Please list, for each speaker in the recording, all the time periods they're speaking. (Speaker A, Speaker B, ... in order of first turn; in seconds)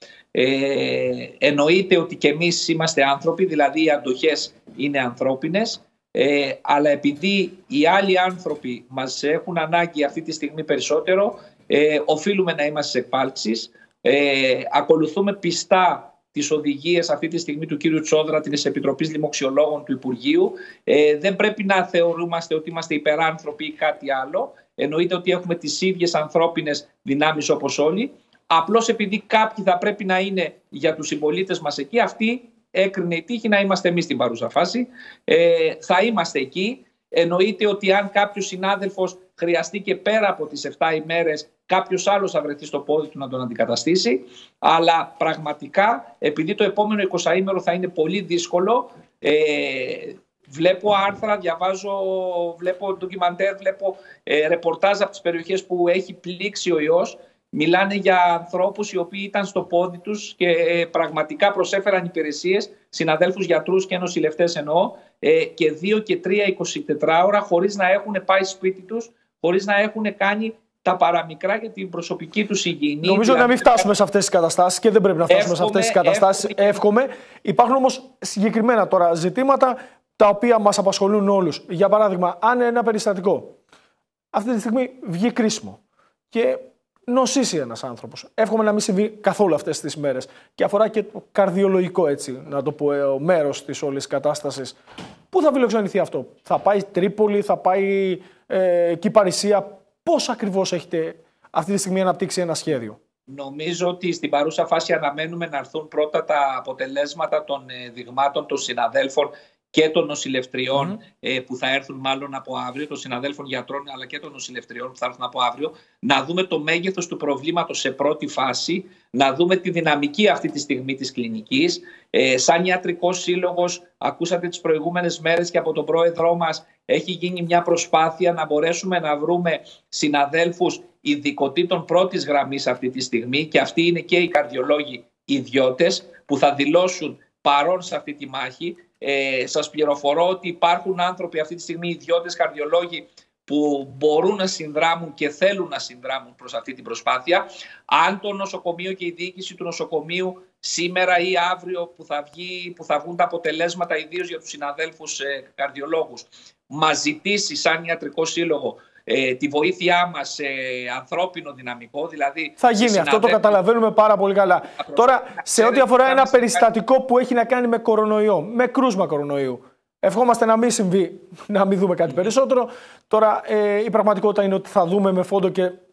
Speaker A: 0.3-73.9, 75.3-76.8, 103.3-163.6, 164.9-166.7
Speaker B: 73.0-83.6, 84.3-85.8, 86.3-94.8, 95.3-103.0, 162.6-175.8